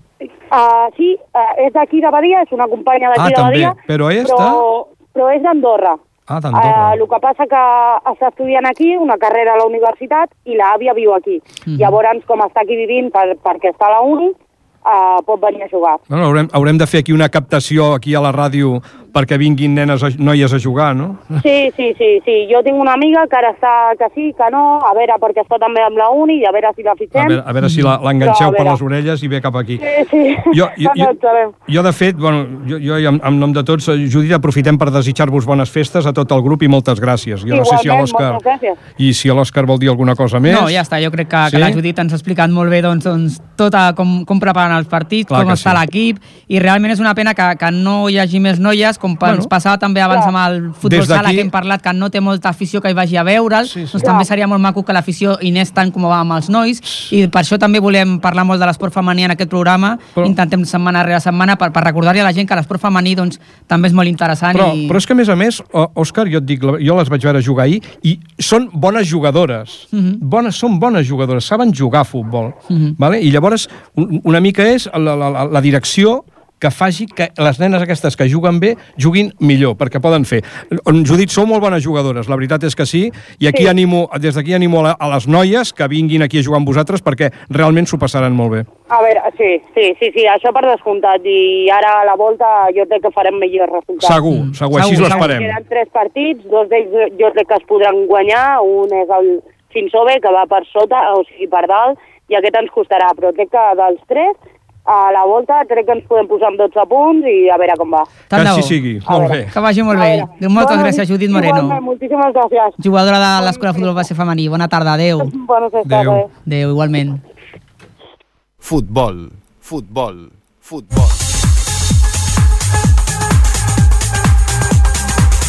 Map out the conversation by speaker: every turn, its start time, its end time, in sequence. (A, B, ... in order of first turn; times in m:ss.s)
0:00.5-0:06.0 A
0:03.2-0:04.6 B
0:06.3-0:07.0 B
0:06.5-0:16.0 A
0:11.7-0:12.0 C
0:16.1-0:21.4 B
0:21.4-0:27.4 A
0:27.1-0:29.8 B
0:27.6-0:27.9 C
0:28.2-0:28.8 A
0:29.8-0:31.5 A
0:30.5-0:31.1 B
0:31.7-0:38.4 B
0:37.5-0:38.8 A
0:39.0-0:40.8 B
0:40.4-1:05.0 C
0:41.4-0:41.8 B
0:45.3-0:45.8 B
0:49.2-0:49.5 B
0:50.8-0:51.5 B
0:53.6-0:54.0 B
0:54.0-0:54.2 A
1:04.5-1:28.7 B
1:09.9-1:10.2 C
1:12.7-1:13.0 C
1:28.9-1:34.2 A
1:34.0-1:35.6 B
1:34.3-1:35.3 C
1:34.9-1:48.1 A
1:48.3-1:48.8 C
1:48.3-1:49.5 B
1:49.1-1:49.4 A
1:49.5-1:51.8 C
1:49.9-1:52.8 A
1:52.8-1:55.3 C
1:53.4-1:54.0 A
1:55.2-1:56.3 A
1:55.8-1:56.2 B
1:56.4-1:57.2 C
1:58.6-2:01.2 D